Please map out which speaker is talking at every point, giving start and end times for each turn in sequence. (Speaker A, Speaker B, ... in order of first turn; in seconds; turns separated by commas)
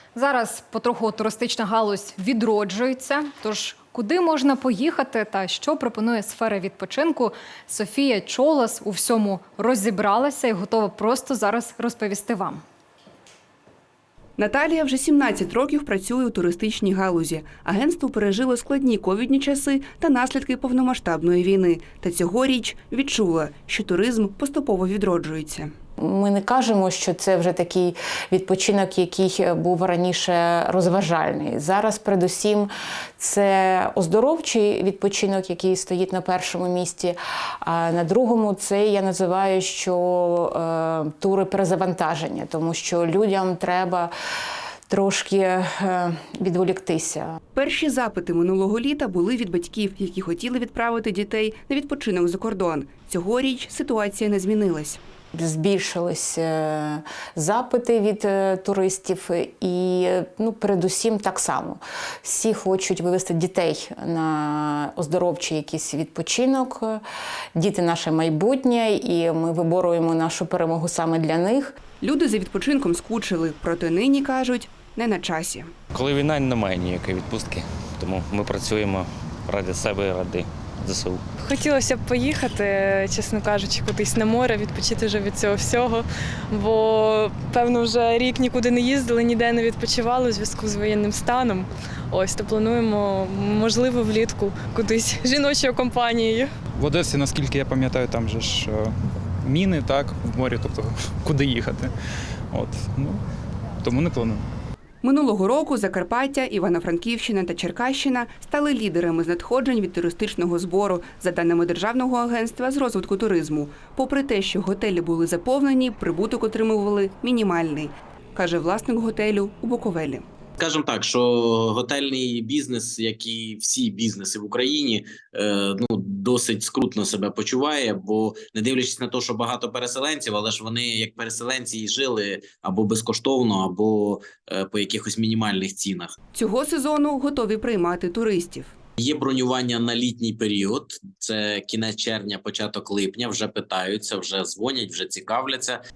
Speaker A: 0.1-12.6, Speaker B: 14.4-25.7, Speaker C: 26.0-44.1, Speaker C: 44.9-47.4, Speaker B: 47.5-55.0, Speaker C: 55.3-67.0, Speaker C: 67.5-71.7, Speaker B: 72.0-75.7, Speaker D: 75.9-81.2, Speaker E: 81.4-96.5, Speaker F: 96.8-101.9, Speaker F: 102.5-103.2, Speaker F: 103.8-104.5, Speaker B: 105.0-120.2, Speaker G: 120.6-136.1, Speaker B: 136.3-138.7, Speaker G: 139.0-145.8